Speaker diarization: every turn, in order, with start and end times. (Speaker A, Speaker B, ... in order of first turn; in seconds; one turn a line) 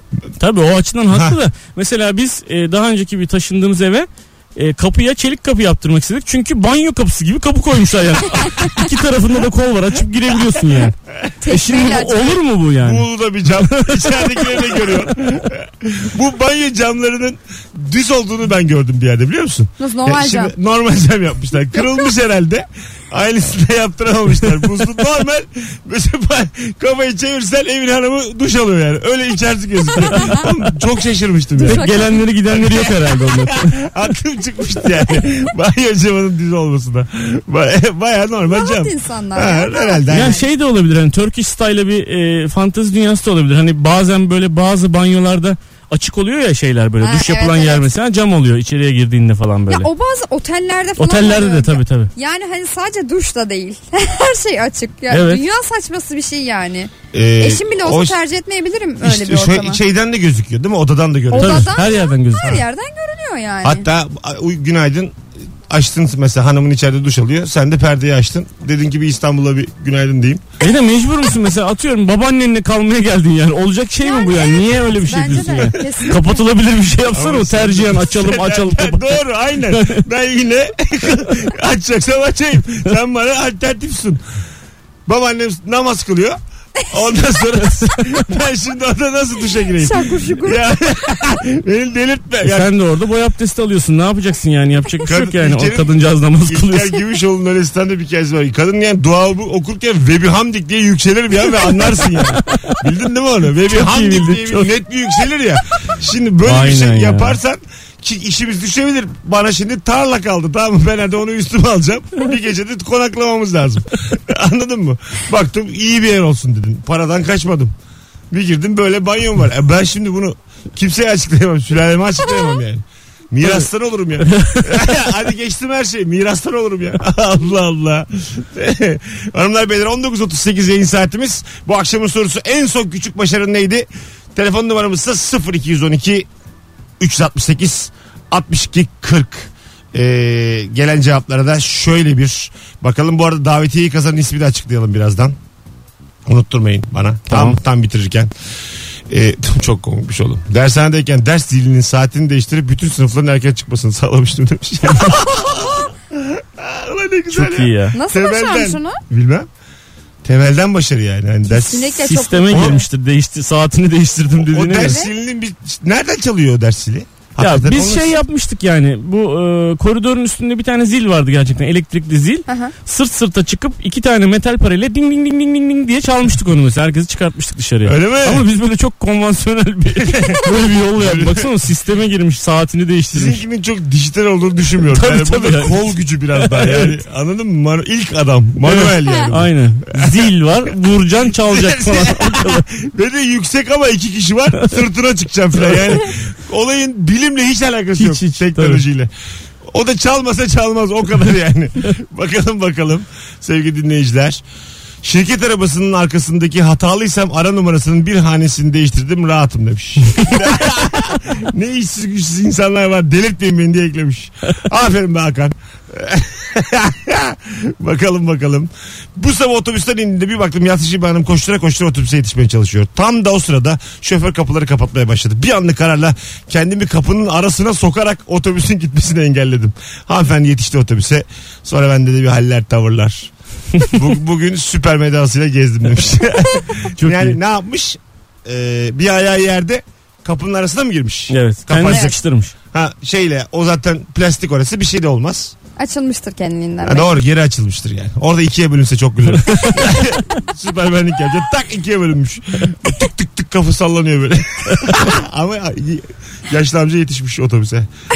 Speaker A: 0.4-11.0
Speaker B: 1.1-1.4
Speaker C: 11.4-12.4
Speaker A: 11.5-13.1
Speaker B: 12.8-31.9
Speaker A: 13.6-14.8
Speaker C: 19.8-20.5
Speaker A: 31.6-33.8
Speaker C: 31.6-32.2
Speaker B: 32.5-40.4
Speaker C: 38.5-40.4
Speaker A: 40.1-49.9
Speaker C: 47.0-47.9
Speaker C: 49.7-59.8
Speaker A: 51.0-52.1
Speaker A: 55.1-55.4
Speaker B: 57.1-58.2
Speaker B: 59.0-61.8
Speaker C: 61.3-63.9
Speaker A: 61.3-62.5
Speaker B: 63.6-65.2
Speaker B: 65.7-70.4
Speaker A: 70.6-80.1
Speaker C: 74.0-76.4
Speaker B: 75.5-75.9
Speaker B: 77.1-84.2
Speaker B: 85.1-86.4
Speaker B: 86.9-92.7
Speaker C: 89.7-90.7
Speaker A: 92.4-97.0
Speaker B: 95.0-117.7
Speaker A: 103.7-104.7
Speaker A: 106.4-107.4
Speaker B: 118.3-136.3
Speaker A: 124.2-124.8
Speaker B: 137.0-145.4
Speaker B: 146.3-148.3
Speaker A: 147.3-147.6
Speaker B: 149.1-159.5
Speaker A: 157.3-158.0
Speaker C: 157.9-159.0
Speaker B: 160.2-162.8
Speaker C: 161.5-162.8
Speaker A: 162.0-165.0
Speaker B: 164.4-168.2
Speaker C: 164.8-165.1
Speaker A: 167.4-183.4
Speaker C: 172.5-172.7
Speaker B: 177.8-178.4
Speaker B: 180.0-181.5
Speaker B: 183.1-190.3
Speaker A: 184.9-187.0
Speaker A: 188.6-192.6
Speaker B: 191.4-199.1
Speaker A: 198.0-198.8
Speaker B: 199.7-204.4
Speaker B: 205.0-233.3
Speaker B: 233.9-242.2
Speaker A: 237.0-237.4
Speaker A: 241.3-242.5
Speaker C: 241.9-242.1
Speaker B: 242.7-245.5
Speaker C: 245.8-247.1
Speaker B: 246.8-257.9
Speaker A: 249.3-250.1